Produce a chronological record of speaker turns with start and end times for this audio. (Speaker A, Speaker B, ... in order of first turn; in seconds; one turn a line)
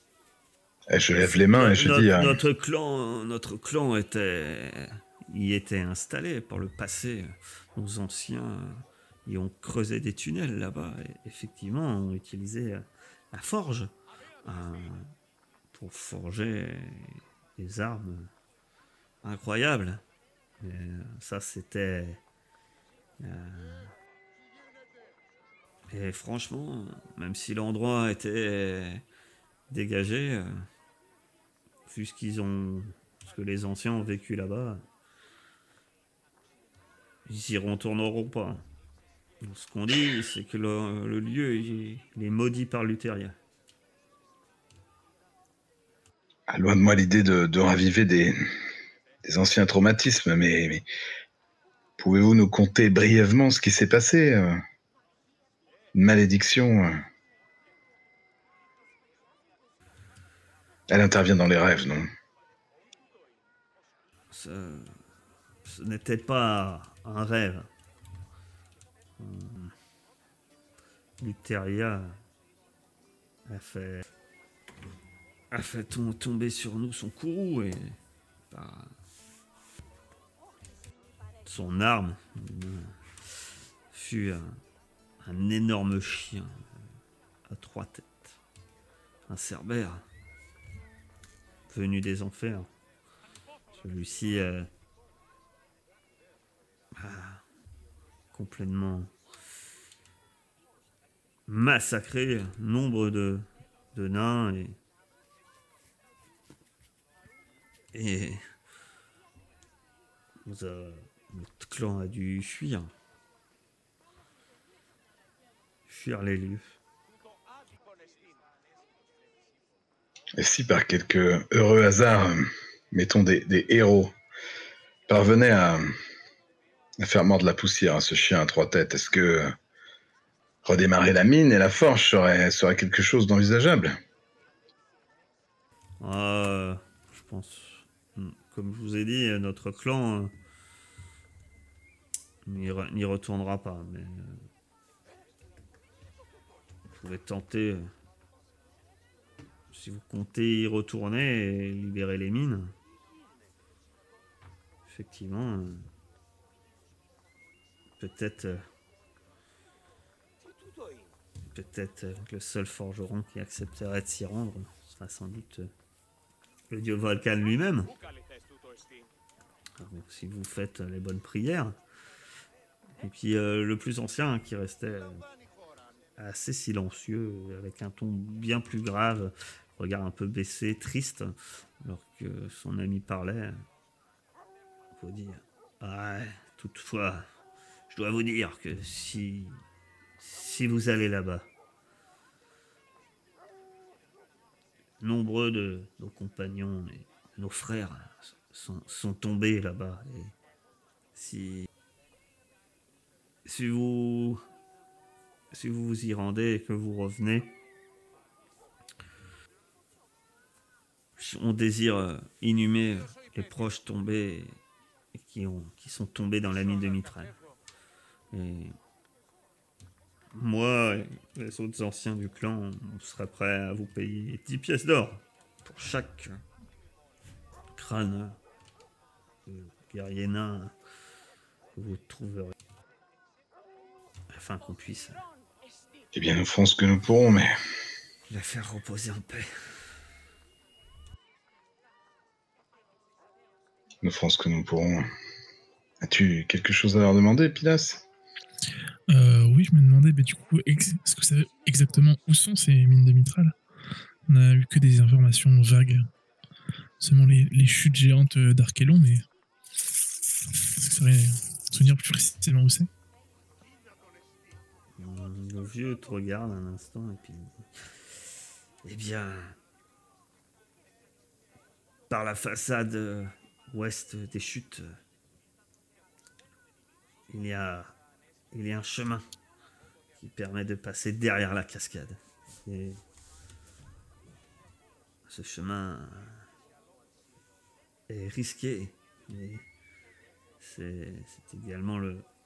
Speaker A: 0.9-2.4
Speaker B: 1.2-13.9
Speaker B: 14.4-15.1
Speaker B: 15.7-18.3
Speaker B: 19.2-20.0
Speaker B: 20.6-22.2
Speaker B: 23.2-23.9
Speaker B: 25.9-29.0
Speaker B: 29.7-30.7
Speaker B: 31.9-34.8
Speaker B: 37.3-38.6
Speaker B: 39.4-43.4
Speaker A: 46.5-48.4
Speaker A: 49.2-50.8
Speaker A: 52.0-54.6
Speaker A: 55.9-57.0
Speaker A: 60.9-62.1
Speaker B: 64.3-65.0
Speaker B: 65.7-67.7
Speaker B: 69.2-69.7
Speaker B: 71.2-72.2
Speaker B: 73.5-74.0
Speaker B: 75.5-78.0
Speaker B: 78.5-78.9
Speaker B: 81.5-83.0
Speaker B: 83.9-84.6
Speaker B: 85.2-86.6
Speaker B: 87.5-88.3
Speaker B: 89.3-90.0
Speaker B: 91.7-92.7
Speaker B: 93.7-94.7
Speaker B: 96.9-97.4
Speaker B: 98.3-99.1
Speaker B: 101.5-104.8
Speaker B: 107.9-108.4
Speaker B: 110.5-112.9
Speaker B: 115.9-116.8
Speaker A: 120.4-124.1
Speaker A: 125.1-125.9
Speaker A: 127.0-129.5
Speaker A: 130.7-134.0
Speaker B: 136.0-140.3
Speaker B: 142.5-144.4
Speaker B: 146.9-147.9
Speaker B: 149.7-152.8
Speaker B: 154.9-155.9
Speaker B: 158.0-158.6
Speaker B: 161.5-165.7
Speaker B: 166.7-167.9
Speaker B: 169.8-171.8
Speaker B: 173.0-175.2
Speaker B: 176.2-183.6
Speaker B: 184.9-187.3
Speaker B: 187.9-189.6
Speaker B: 190.2-191.5
Speaker B: 195.0-200.3
Speaker B: 201.2-201.7
Speaker B: 203.4-204.4
Speaker B: 205.5-207.5
Speaker B: 211.2-214.6
Speaker B: 215.2-217.3
Speaker B: 218.3-218.8
Speaker B: 220.3-226.4
Speaker B: 227.8-228.4
Speaker B: 229.5-230.7
Speaker B: 231.8-232.5
Speaker B: 234.3-235.2
Speaker A: 236.1-237.5
Speaker B: 238.3-239.5
Speaker A: 244.0-245.1
Speaker A: 246.0-248.0
Speaker C: 249.1-253.5
Speaker C: 254.3-256.1
Speaker C: 257.0-259.2
Speaker C: 260.8-262.9
Speaker B: 265.0-267.7
Speaker B: 268.8-269.6
Speaker B: 272.1-275.0
Speaker B: 277.3-277.9
Speaker B: 278.5-279.2
Speaker B: 280.2-283.0
Speaker B: 285.3-286.4
Speaker B: 288.1-289.7
Speaker B: 290.6-292.3